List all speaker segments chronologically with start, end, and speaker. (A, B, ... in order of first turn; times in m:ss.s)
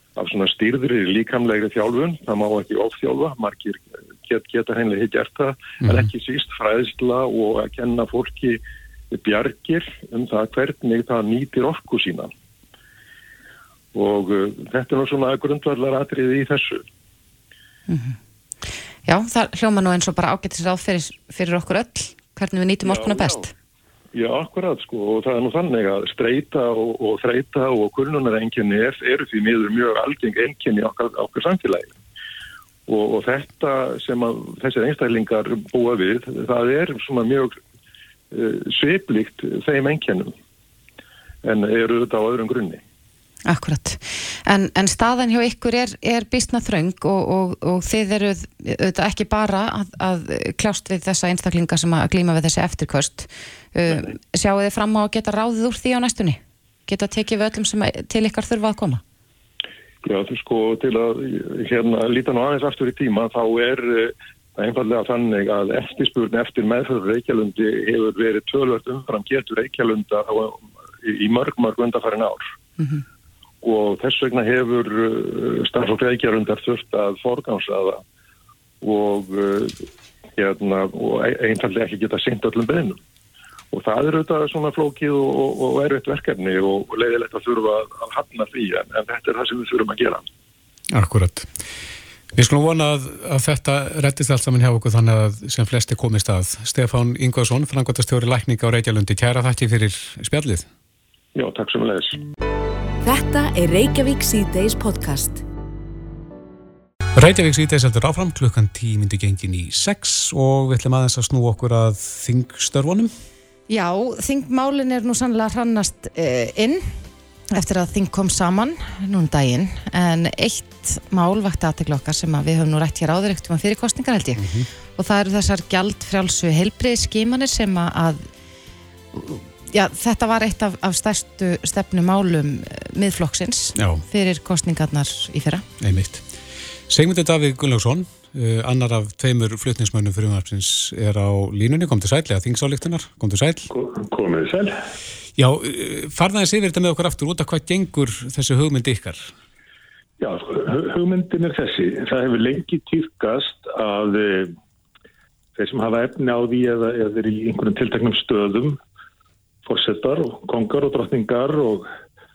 0:00.2-0:12.3 A
0:13.9-0:16.8 A
0:17.9-0:18.2 B
0:19.0-0:23.5 B
0:22.8-0:23.4 A
0:24.1-0:32.0 A
0:32.9-0:37.6 A
0:38.3-0:40.3 A
0:41.4-0:42.8 A
0:43.5-0:59.0 B
1:00.0-1:12.4 A
1:13.6-1:18.0 A
1:18.8-1:19.9 A
1:20.4-1:23.0 A
1:23.7-1:30.2 A
1:30.9-1:31.5 C
1:32.3-1:40.7 C
1:41.4-1:42.2 A
1:43.0-1:45.4 D
1:47.1-1:53.1 C
1:53.7-1:56.9 B
1:57.5-2:08.3 B
2:04.4-2:04.7 C
2:09.1-2:15.6 B
2:13.8-2:14.0 C
2:15.8-2:16.2 C
2:16.9-2:23.7 C
2:23.7-2:24.8 E
2:25.4-2:29.3 C
2:30.2-2:34.6 E
2:35.6-2:38.8 E
2:39.6-2:41.9 E